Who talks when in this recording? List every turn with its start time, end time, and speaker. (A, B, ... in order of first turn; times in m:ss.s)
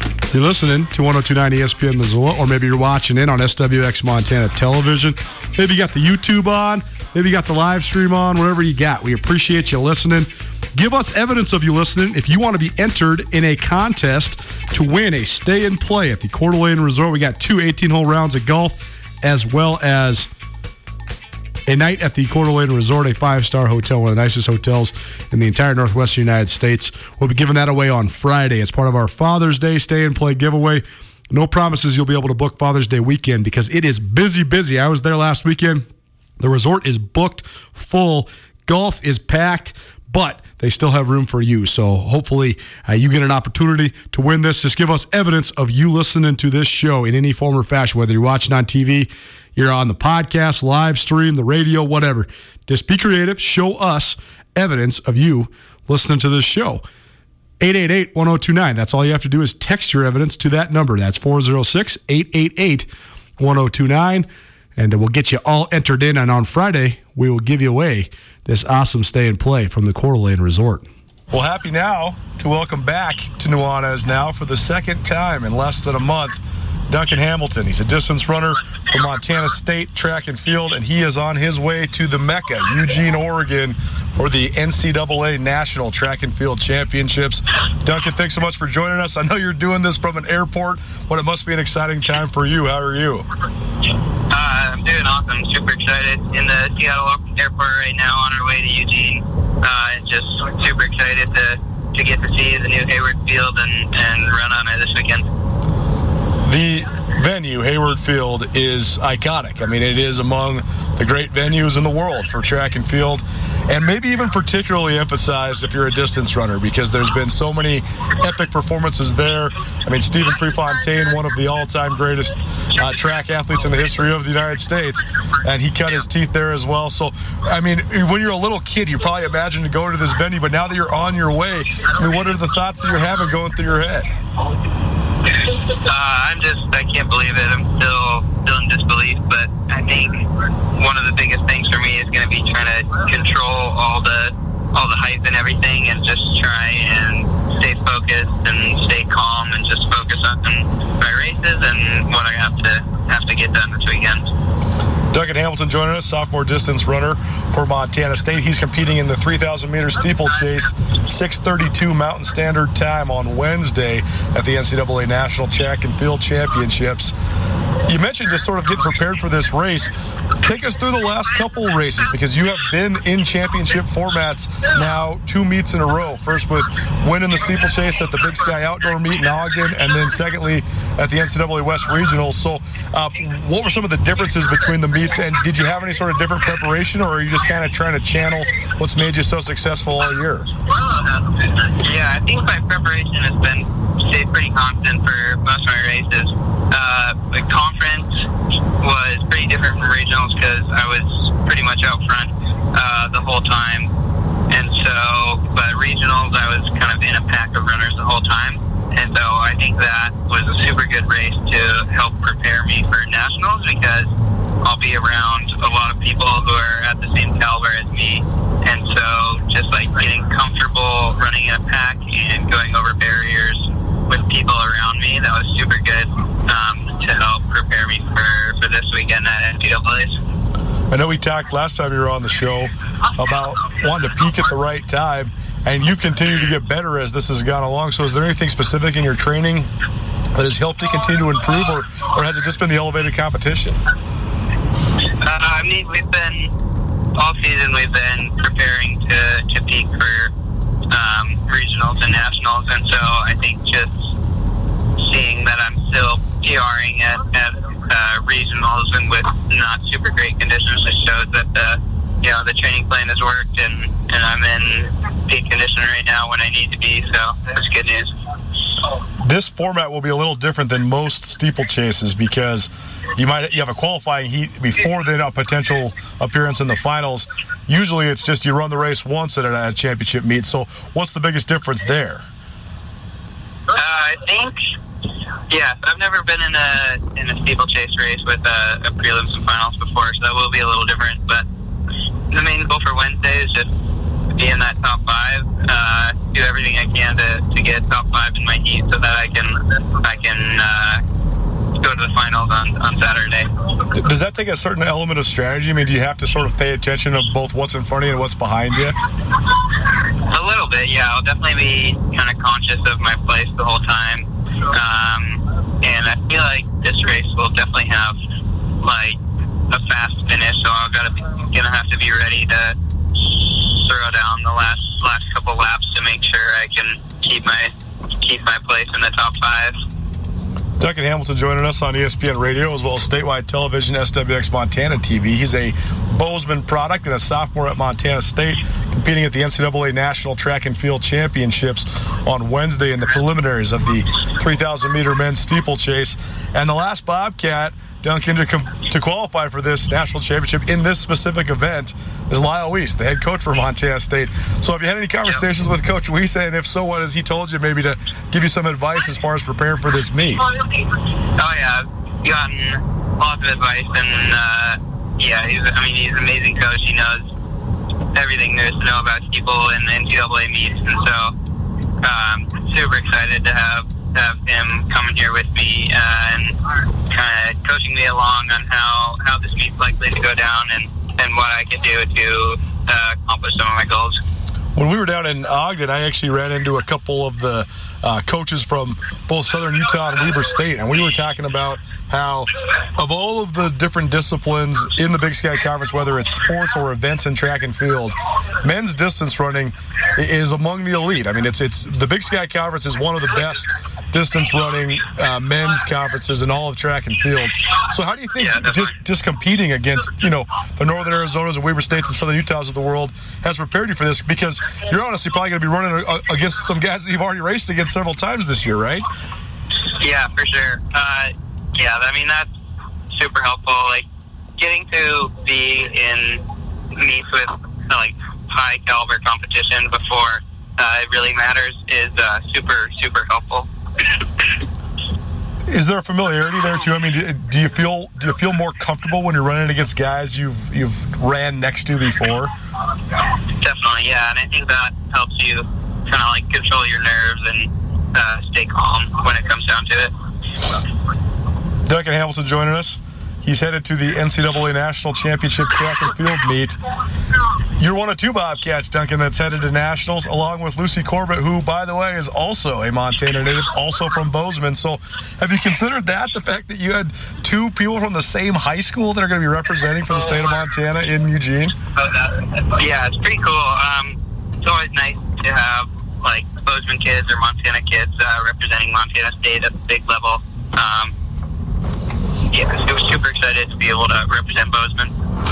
0:00.3-0:20.3 A
0:21.7-0:35.9 A
0:36.4-0:56.8 A
0:57.6-1:33.2 A
1:34.3-1:45.2 B
1:46.4-2:14.1 A
2:15.7-2:20.2 B
2:20.8-2:34.3 B
2:35.1-2:47.1 A
2:47.8-3:10.5 A
3:10.7-3:18.1 B
3:18.8-3:23.9 B
3:24.5-3:34.1 B
3:34.6-3:50.2 B
3:50.9-3:59.7 A
4:00.4-4:03.8 A
4:05.2-4:06.5 B
4:07.2-4:10.3 B
4:10.9-4:14.1 B
4:15.0-4:28.1 B
4:29.2-4:42.2 A
4:43.7-4:44.6 B
4:45.5-4:51.5 B
4:52.3-4:53.7 B
4:54.3-5:01.0 B
5:01.8-5:03.5 B
5:04.0-5:09.0 A
5:10.3-5:18.2 B
5:18.8-5:29.8 B
5:30.8-6:00.4 A
6:01.4-6:07.3 B
6:08.2-6:11.3 B
6:12.0-6:16.6 B
6:17.1-6:24.2 B
6:24.8-6:59.0 A
6:48.4-6:48.9 B
7:00.0-7:02.5 B
7:03.1-7:04.1 B
7:04.6-7:06.4 B
7:07.0-7:13.7 B
7:15.7-7:22.5 A
7:23.6-7:30.1 B
7:31.8-7:36.8 A
7:37.8-7:51.7 A
7:52.0-8:01.1 B
8:02.5-8:05.1 B